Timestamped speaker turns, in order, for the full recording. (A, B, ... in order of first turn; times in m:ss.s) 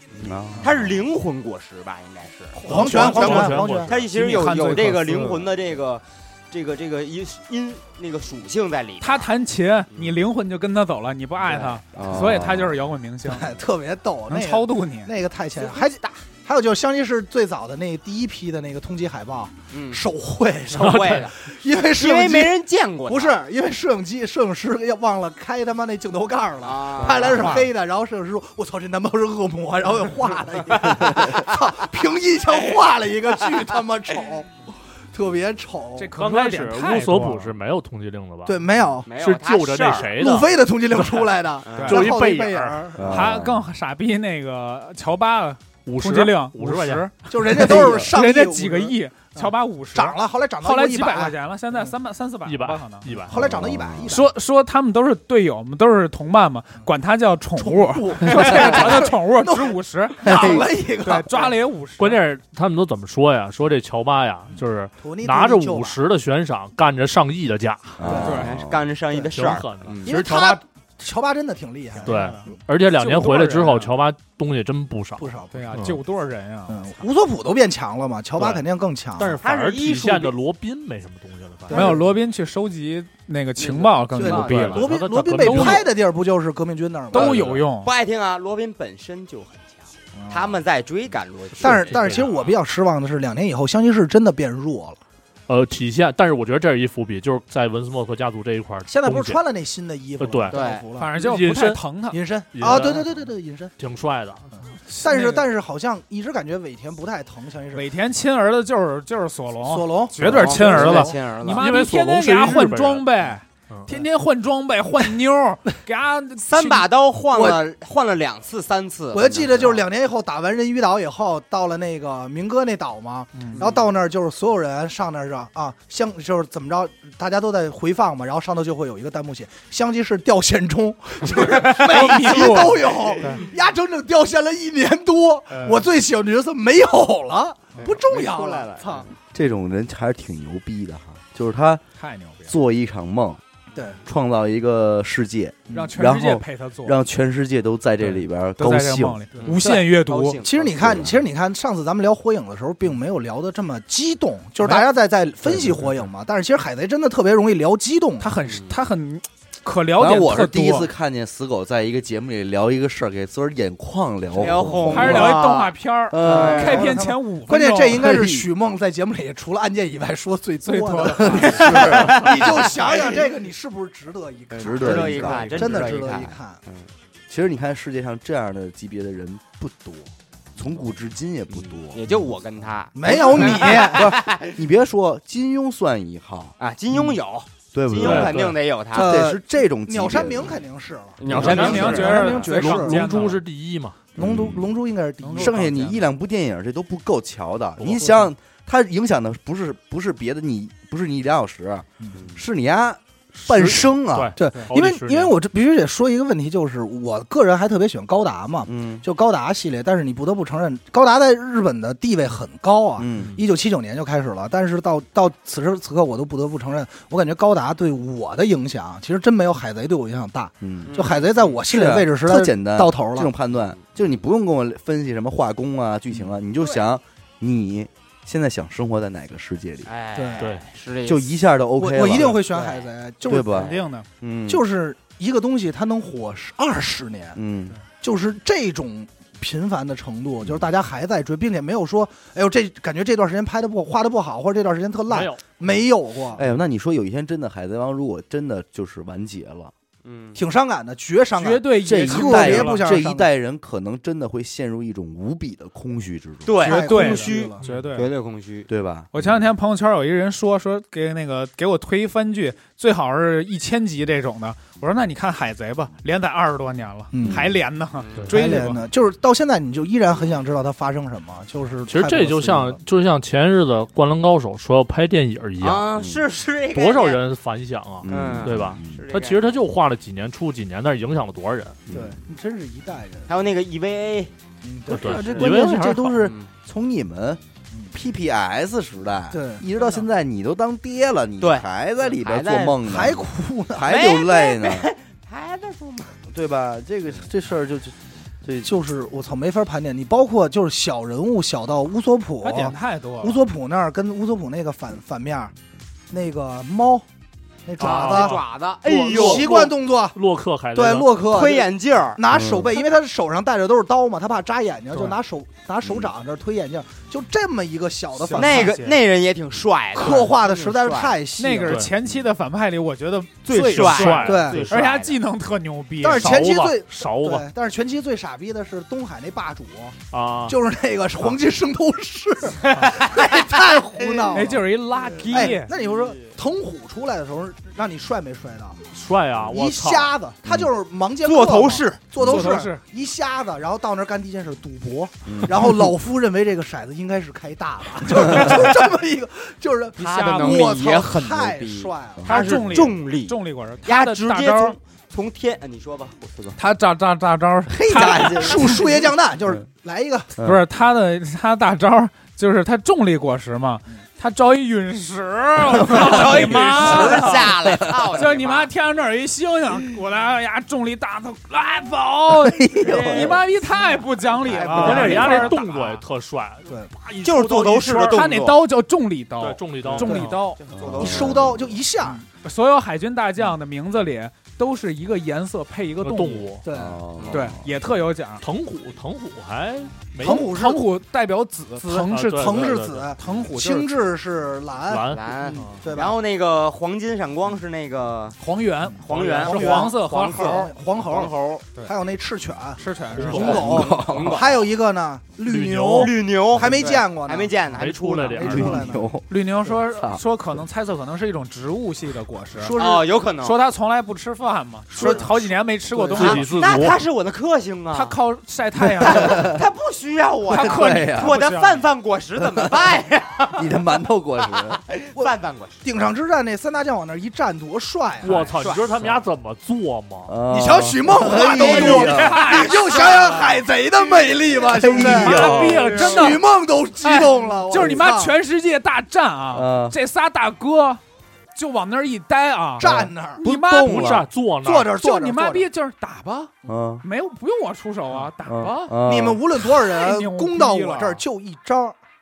0:00.1-0:09.3 A
0:00.2-0:00.9 B
0:02.6-0:04.0 C
0:02.7-0:04.1 D
0:02.7-0:05.4 E
0:09.0-0:13.5 E
0:11.5-0:12.2 A
0:12.0-0:12.7 B
0:13.3-0:22.6 C
0:14.3-0:15.1 E
0:15.6-0:16.2 A
0:19.7-0:20.0 A
0:20.7-0:21.3 A
0:20.8-0:21.3 D
0:21.9-0:23.4 A
0:23.1-0:36.1 C
0:26.6-0:27.6 A
0:27.2-0:27.7 E
0:30.8-0:31.4 A
0:36.0-0:37.6 E
0:36.2-0:38.6 D
0:38.5-0:39.1 C
0:39.1-0:40.2 A
0:39.2-0:40.5 D
0:40.2-0:43.3 C
0:41.6-0:42.1 A
0:41.8-0:42.0 E
0:41.8-0:42.9 D
0:43.0-0:43.6 B
0:43.1-0:53.1 E
0:45.8-0:47.2 D
0:47.3-0:51.9 C
0:47.6-0:48.1 B
0:52.4-0:53.4 D
0:53.1-0:54.2 B
0:53.3-0:54.3 C
0:54.1-1:02.2 E
0:57.6-1:01.6 C
1:00.2-1:00.7 B
1:02.0-1:08.1 D
1:05.0-1:06.0 C
1:08.0-1:08.8 B
1:08.0-1:08.4 C
1:08.1-1:08.5 E
1:08.3-1:10.1 A
1:09.3-1:10.6 D
1:10.0-1:12.6 C
1:12.0-1:16.0 D
1:12.0-1:12.4 E
1:13.0-1:13.9 E
1:15.2-1:15.7 C
1:15.5-1:17.0 E
1:16.7-1:19.4 C
1:18.4-1:18.6 D
1:19.2-1:22.0 D
1:19.4-1:20.4 A
1:21.7-1:22.0 C
1:21.7-1:25.8 E
1:23.6-1:24.9 A
1:24.2-1:27.4 C
1:24.3-1:26.0 D
1:27.1-1:27.9 E
1:27.2-1:32.3 A
1:27.2-1:27.6 D
1:30.2-1:30.6 C
1:31.5-1:32.5 D
1:31.6-1:35.0 C
1:35.5-1:39.4 D
1:38.9-1:41.2 C
1:40.2-1:41.8 D
1:40.5-1:40.8 A
1:41.0-1:42.2 E
1:42.1-1:43.8 C
1:42.5-1:43.2 D
1:43.8-1:44.5 D
1:44.6-1:47.9 C
1:44.9-1:45.5 E
1:47.7-1:56.9 E
1:49.7-1:51.2 C
1:50.2-1:51.7 A
1:50.3-1:50.5 D
1:51.5-1:53.1 D
1:56.4-1:59.8 A
1:57.3-1:57.6 B
1:59.1-2:19.1 C
2:03.3-2:03.6 E
2:03.5-2:03.9 A
2:11.4-2:13.5 E
2:13.1-2:13.4 A
2:15.5-2:15.8 E
2:17.8-2:19.1 A
2:19.3-2:21.8 B
2:22.0-2:22.6 E
2:22.5-2:23.4 B
2:24.1-2:29.2 B
2:25.7-2:27.0 E
2:28.6-2:30.4 E
2:29.4-2:31.1 A
2:30.4-2:38.3 C
2:30.7-2:31.2 B
2:34.6-2:34.9 E
2:38.2-2:40.9 E
2:38.5-2:38.8 A
2:40.0-2:45.4 B
2:44.4-2:47.0 A
2:44.9-2:48.2 E
2:46.1-2:47.0 B
2:46.2-2:56.6 C
2:47.9-2:48.5 B
2:50.6-2:51.8 E
2:51.2-2:52.3 B
2:51.4-2:53.3 A
2:54.5-2:56.9 A
2:54.6-2:55.8 B
2:55.2-2:55.8 E
2:57.3-3:02.1 B
3:01.5-3:04.6 A
3:03.0-3:04.1 C
3:03.1-3:06.6 B
3:06.6-3:09.2 A
3:07.7-3:08.4 B
3:08.0-3:08.6 D
3:08.9-3:10.6 B
3:08.9-3:13.2 C
3:11.2-3:12.5 A
3:11.3-3:14.1 D
3:11.4-3:13.4 E
3:11.4-3:11.7 B
3:14.2-3:14.7 B
3:14.2-3:15.7 C
3:15.2-3:16.0 E
3:15.4-3:24.3 B
3:17.8-3:18.1 D
3:17.9-3:18.2 C
3:23.4-3:25.4 D
3:23.5-3:43.3 C
3:28.7-3:29.0 B
3:33.0-3:33.4 B
3:40.6-3:41.1 B
3:40.8-3:41.5 A
3:41.7-3:49.9 B
3:43.5-3:44.0 A
3:49.9-3:51.4 A
3:50.2-3:50.4 C
3:50.4-3:50.7 D
3:51.0-3:52.4 B
3:51.8-3:53.7 C
3:52.4-3:52.9 A
3:53.3-3:54.6 B
3:53.5-3:54.1 E
3:54.5-3:57.4 C
3:57.4-3:57.8 B
3:57.9-4:06.4 C
4:05.1-4:05.4 D
4:06.4-4:09.7 B
4:10.0-4:10.4 A
4:10.4-4:13.3 C
4:11.4-4:12.8 E
4:11.8-4:16.6 B
4:16.5-4:18.7 A
4:16.6-4:17.6 C
4:16.6-4:18.1 E
4:17.6-4:18.0 D
4:18.7-4:19.1 B
4:19.1-4:28.9 E
4:27.1-4:27.5 C
4:27.2-4:27.5 B
4:28.0-4:28.4 A
4:28.3-4:32.8 C
4:31.9-4:35.9 D
4:35.6-4:37.2 A
4:36.0-4:36.2 B
4:36.7-4:41.8 D
4:38.0-4:39.0 B
4:38.1-4:39.6 A
4:41.9-4:42.2 B
4:41.9-4:43.3 C
4:43.3-4:44.3 A
4:44.6-4:46.3 C
4:44.9-4:45.5 A
4:44.9-4:46.2 D
4:46.2-4:46.5 A
4:46.6-4:47.4 B
4:47.9-4:54.9 B
4:49.3-4:49.6 C
4:51.4-4:51.7 A
4:52.2-4:52.9 A
4:52.9-4:53.9 C
4:53.8-4:56.2 A
4:56.3-4:58.8 B
4:58.6-5:05.5 C
5:02.4-5:03.4 E
5:06.1-5:07.0 C
5:07.7-5:10.2 C
5:07.8-5:08.4 D
5:07.8-5:09.7 A
5:09.2-5:11.2 D
5:10.7-5:18.7 C
5:11.2-5:12.2 A
5:12.3-5:12.8 B
5:15.8-5:16.1 B
5:18.2-5:19.0 E
5:18.3-5:21.2 A
5:20.0-5:21.9 C
5:21.4-5:26.4 E
5:23.5-5:25.2 A
5:23.6-5:24.8 D
5:24.2-5:24.7 C
5:26.0-5:34.6 C
5:26.1-5:27.5 D
5:30.1-5:30.6 D
5:32.6-5:34.5 A
5:34.3-5:35.7 E
5:35.2-5:36.2 A
5:35.3-5:38.8 C
5:38.9-5:40.1 D
5:39.5-5:52.6 C
5:40.4-5:40.7 B
5:41.2-5:42.0 A
5:42.2-5:42.6 B
5:42.2-5:42.8 E
5:45.3-5:45.8 B
5:48.2-5:48.5 B
5:50.0-5:50.8 E
5:50.0-5:56.6 A
5:52.3-5:54.8 E
5:56.6-5:58.8 E
5:57.7-5:58.9 B
5:57.9-6:00.3 C
6:00.4-6:00.6 B
6:00.4-6:07.6 E
6:05.8-6:06.6 B
6:05.9-6:08.7 A
6:06.9-6:07.2 C
6:07.2-6:07.9 B
6:08.2-6:16.0 E
6:12.3-6:13.4 B
6:12.9-6:13.4 A
6:14.4-6:15.6 C
6:14.7-6:15.3 A
6:14.8-6:18.4 D
6:17.2-6:18.6 A
6:18.0-6:20.6 E
6:19.4-6:20.5 D
6:20.0-6:20.3 C
6:20.6-6:21.6 A
6:20.7-6:21.8 B
6:20.9-6:22.2 C
6:22.1-6:26.5 E
6:26.0-6:26.6 D
6:26.6-6:27.0 C
6:26.7-6:27.7 B
6:27.2-6:27.5 A
6:27.3-6:28.4 E
6:28.4-6:30.5 D
6:30.2-6:30.9 C
6:30.2-6:33.9 E
6:31.8-6:36.2 C
6:32.1-6:33.2 D
6:34.9-6:35.8 D
6:35.1-6:38.4 A
6:38.4-6:40.7 E
6:39.0-6:41.7 A
6:39.1-6:39.9 D
6:39.2-6:47.6 C
6:42.8-6:43.8 E
6:43.2-6:43.8 D
6:43.2-6:44.6 A
6:43.5-6:44.5 B
6:45.4-6:46.2 D
6:45.9-6:48.7 A
6:47.7-6:48.8 D
6:48.3-6:49.1 C
6:48.4-6:49.3 B
6:49.3-6:52.8 E
6:49.9-6:50.2 B
6:52.6-6:53.1 C
6:52.7-6:53.6 A
6:53.4-6:56.7 E
6:54.9-6:56.4 C
6:55.0-6:55.2 A
6:56.2-6:57.0 D
6:56.2-6:58.2 A
6:57.9-6:59.5 E
6:59.0-6:59.6 B
6:59.0-7:05.8 A
7:00.5-7:01.4 B
7:00.5-7:01.9 E
7:03.5-7:04.8 B
7:05.8-7:08.8 C
7:08.2-7:10.4 D
7:08.6-7:08.9 A
7:10.3-7:12.6 B
7:10.5-7:18.3 C
7:11.4-7:13.4 A
7:11.5-7:13.6 E
7:14.7-7:16.1 B
7:14.9-7:16.4 E
7:15.3-7:16.0 D
7:17.0-7:21.0 E
7:19.5-7:20.0 B
7:21.6-7:24.2 E
7:22.8-7:23.4 C
7:23.4-7:24.3 A
7:23.8-7:24.9 D
7:24.6-7:25.7 C
7:25.0-7:26.5 E
7:26.6-7:27.0 B
7:27.0-7:29.0 E
7:28.4-7:29.4 B
7:29.0-7:32.0 C
7:29.7-7:31.2 E